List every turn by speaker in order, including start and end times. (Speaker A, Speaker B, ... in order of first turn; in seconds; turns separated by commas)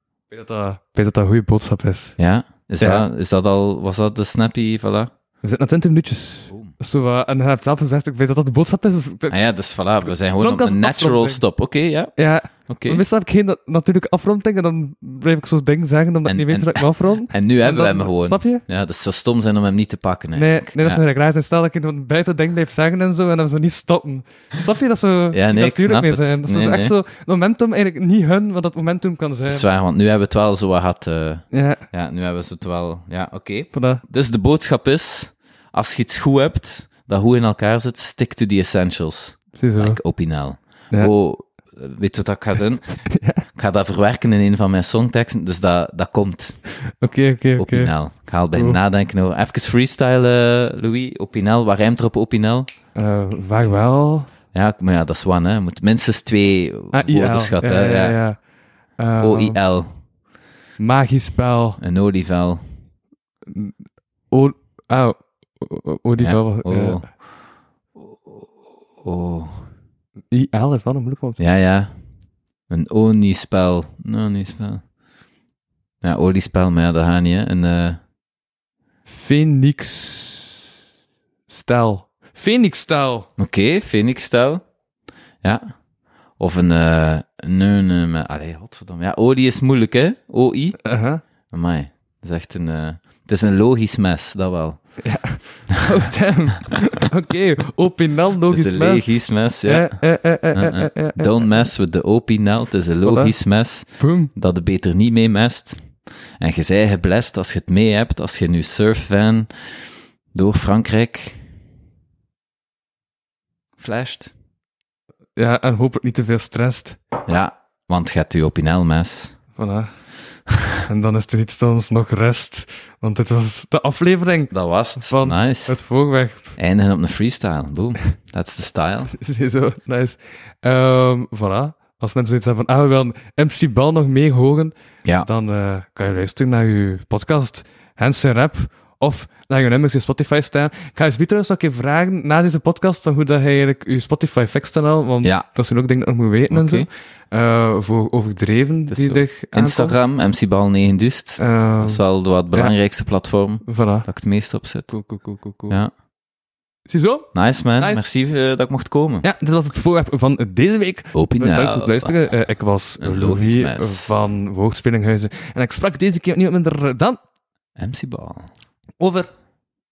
Speaker A: 0.3-2.2, Speaker B: 2.2-5.1, Speaker A: 2.8-3.0, Speaker A: 5.4-9.4, Speaker B: 9.3-13.0, Speaker A: 10.1-11.4, Speaker A: 12.2-18.6, Speaker B: 16.3-21.0, Speaker A: 20.3-29.6, Speaker B: 25.3-26.9, Speaker B: 29.5-46.6, Speaker A: 31.5-31.8, Speaker A: 33.7-34.0, Speaker A: 39.5-40.0, Speaker A: 43.1-43.4, Speaker A: 46.8-47.9, Speaker B: 47.6-52.7, Speaker A: 48.5-48.8, Speaker A: 52.9-54.3, Speaker B: 54.5-58.2, Speaker A: 56.9-58.4, Speaker A: 59.0-59.6, Speaker B: 59.2-59.9, Speaker A: 60.8-61.8, Speaker B: 61.8-62.6, Speaker A: 63.5-63.7, Speaker A: 64.3-67.0, Speaker B: 66.2-67.3, Speaker B: 68.0-68.5, Speaker B: 69.0-69.7, Speaker A: 70.3-71.4, Speaker B: 71.4-71.9, Speaker B: 72.7-74.8, Speaker B: 76.0-78.0, Speaker A: 79.1-80.6, Speaker A: 81.5-83.3, Speaker B: 83.4-84.6, Speaker B: 85.4-85.8, Speaker B: 86.4-90.9, Speaker A: 90.8-91.2, Speaker B: 91.5-95.0, Speaker A: 95.0-99.1, Speaker B: 98.5-105.8, Speaker A: 99.6-101.4, Speaker A: 103.0-103.3, Speaker A: 103.9-104.3, Speaker B: 106.4-109.7, Speaker B: 110.3-111.4, Speaker B: 113.8-114.3, Speaker A: 115.4-117.0, Speaker B: 117.2-119.4, Speaker A: 119.5-119.9, Speaker A: 120.8-126.5, Speaker B: 124.5-125.8, Speaker B: 126.5-129.1, Speaker A: 129.1-149.9, Speaker B: 146.5-146.9, Speaker B: 148.9-155.0, Speaker A: 151.4-152.0, Speaker A: 153.6-154.1, Speaker A: 154.9-155.8, Speaker A: 156.9-158.0, Speaker B: 157.3-159.2, Speaker A: 159.2-167.2, Speaker B: 161.1-162.1, Speaker B: 163.0-164.1, Speaker B: 167.8-168.5, Speaker A: 169.0-169.3